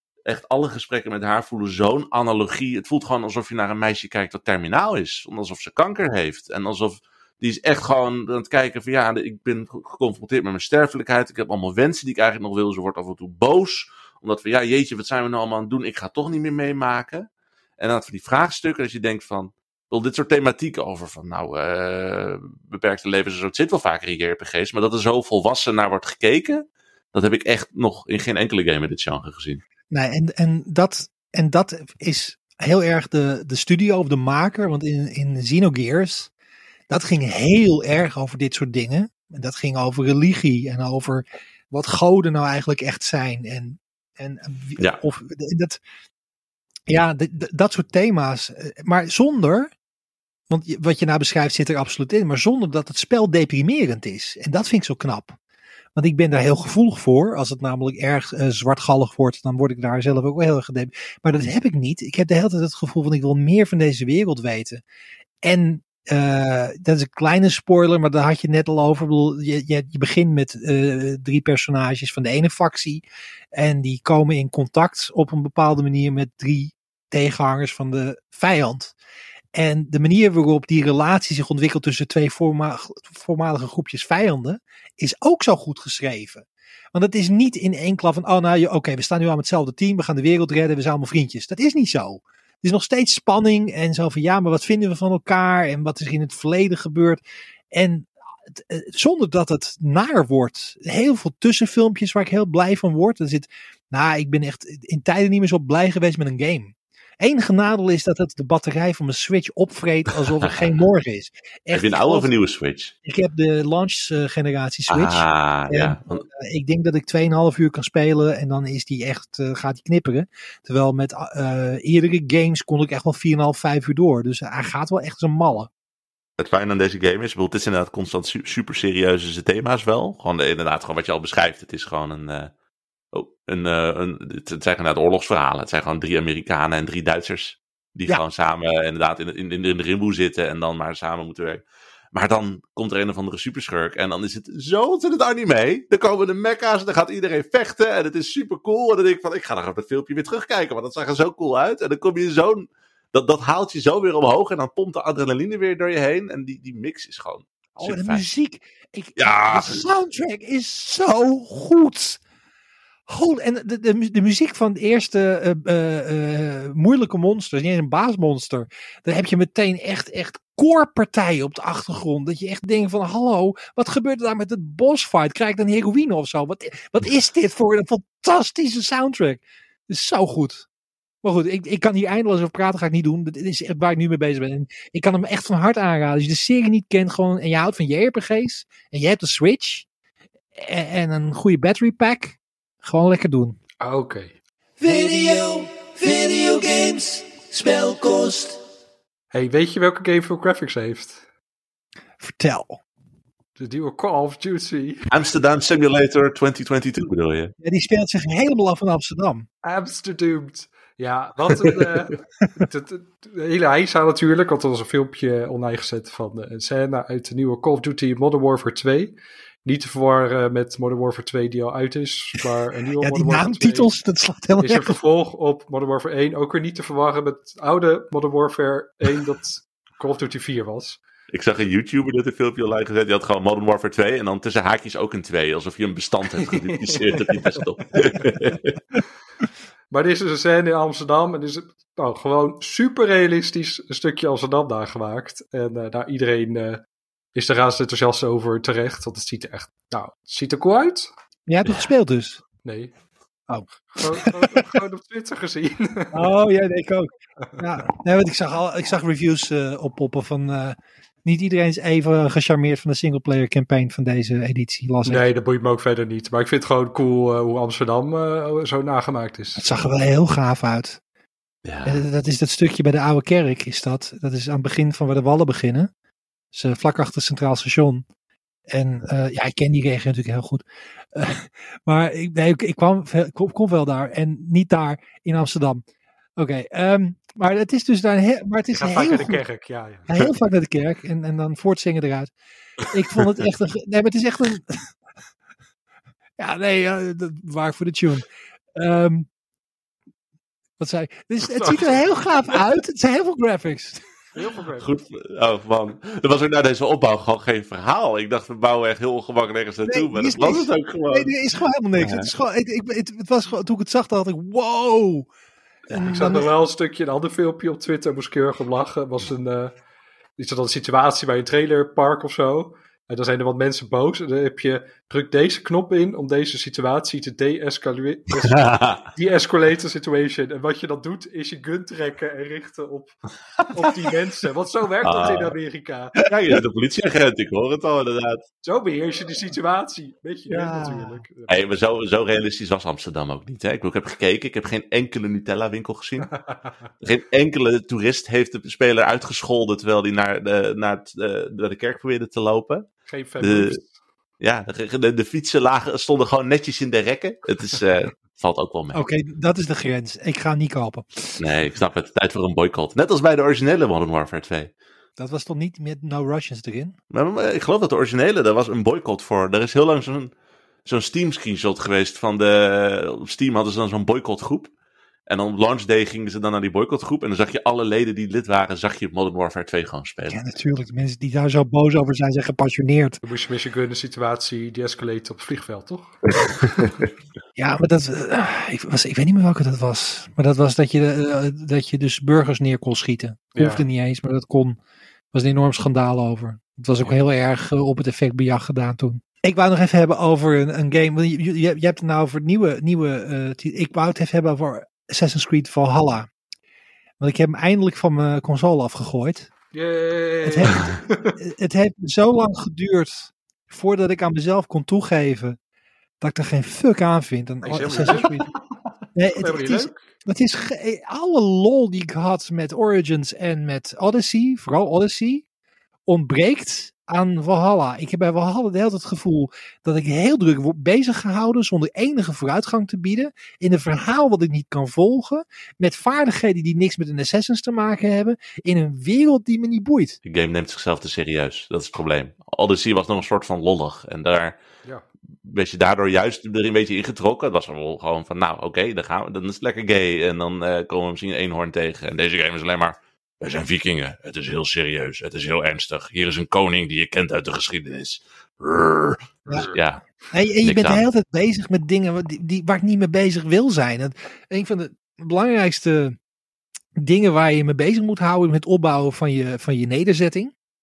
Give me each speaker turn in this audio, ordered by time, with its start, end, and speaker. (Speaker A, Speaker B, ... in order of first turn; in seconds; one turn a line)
Speaker A: 0.2-17.3
Speaker A: 17.8-29.6
Speaker B: 29.9-36.3
Speaker B: 36.9-45.8
Speaker B: 46.9-49.7
Speaker B: 50.5-55.4
Speaker B: 55.9-64.8
Speaker B: 65.4-73.0
Speaker B: 73.5-78.9
Speaker B: 79.5-97.2
Speaker B: 97.7-112.3
Speaker A: 111.7-112.9
Speaker B: 113.0-125.7
Speaker A: 114.9-116.2
Speaker A: 126.4-132.5
Speaker A: 133.1-158.3
Speaker B: 157.8-162.2
Speaker A: 159.2-159.8
Speaker B: 163.1-180.7
Speaker B: 181.2-189.8
Speaker B: 190.6-193.6
Speaker C: 193.8-194.3
Speaker B: 194.8-198.6
Speaker C: 199.3-201.2
Speaker B: 202.2-202.8
Speaker C: 203.6-205.1
Speaker A: 205.1-207.5
Speaker B: 207.6-209.5
Speaker C: 209.6-223.9
Speaker B: 223.0-225.0
Speaker C: 224.6-231.0
Speaker A: 231.3-238.8
Speaker C: 236.4-237.4
Speaker C: 239.9-246.8
Speaker C: 247.3-251.1
Speaker B: 251.5-252.4
Speaker C: 252.6-252.9
Speaker B: 253.5-254.7
Speaker C: 253.9-256.3
Speaker B: 256.1-265.2
Speaker C: 265.0-269.6
Speaker B: 269.6-271.0
Speaker A: 271.6-272.0
Speaker B: 271.8-275.9
Speaker B: 276.5-278.0
Speaker B: 278.7-285.8
Speaker B: 286.4-289.4
Speaker C: 288.8-290.1
Speaker B: 290.1-292.3
Speaker B: 292.9-294.9
Speaker B: 296.4-299.3
Speaker B: 300.8-304.0
Speaker C: 301.4-302.1
Speaker C: 304.3-304.9
Speaker A: 304.8-311.3
Speaker B: 309.9-315.3
Speaker A: 311.9-312.3
Speaker B: 315.9-316.5
Speaker C: 316.0-319.7
Speaker C: 320.4-333.2
Speaker A: 328.4-329.0
Speaker A: 333.6-334.1
Speaker C: 333.7-336.3
Speaker A: 335.0-335.5
Speaker A: 336.2-338.4
Speaker C: 338.6-341.6
Speaker B: 340.5-341.2
Speaker A: 341.5-346.3
Speaker C: 346.3-346.7
Speaker A: 347.0-352.9
Speaker C: 353.1-353.9
Speaker A: 353.4-353.8
Speaker A: 354.4-359.0
Speaker B: 358.9-361.4
Speaker A: 361.4-364.7
Speaker B: 365.2-366.9
Speaker A: 367.1-370.3
Speaker A: 370.9-374.7
Speaker A: 375.3-380.4
Speaker B: 380.3-383.2
Speaker C: 383.2-386.2
Speaker A: 386.6-387.1
Speaker B: 387.6-394.8
Speaker C: 393.5-393.8
Speaker B: 395.3-406.3
Speaker B: 407.2-409.5
Speaker C: 409.7-411.4
Speaker B: 410.4-415.6
Speaker B: 416.2-418.5
Speaker C: 417.6-418.6
Speaker B: 419.1-425.4
Speaker C: 419.4-420.1
Speaker B: 426.1-440.2
Speaker A: 440.2-444.6
Speaker A: 445.4-460.0
Speaker B: 460.3-466.2
Speaker A: 460.6-461.0
Speaker B: 467.0-470.5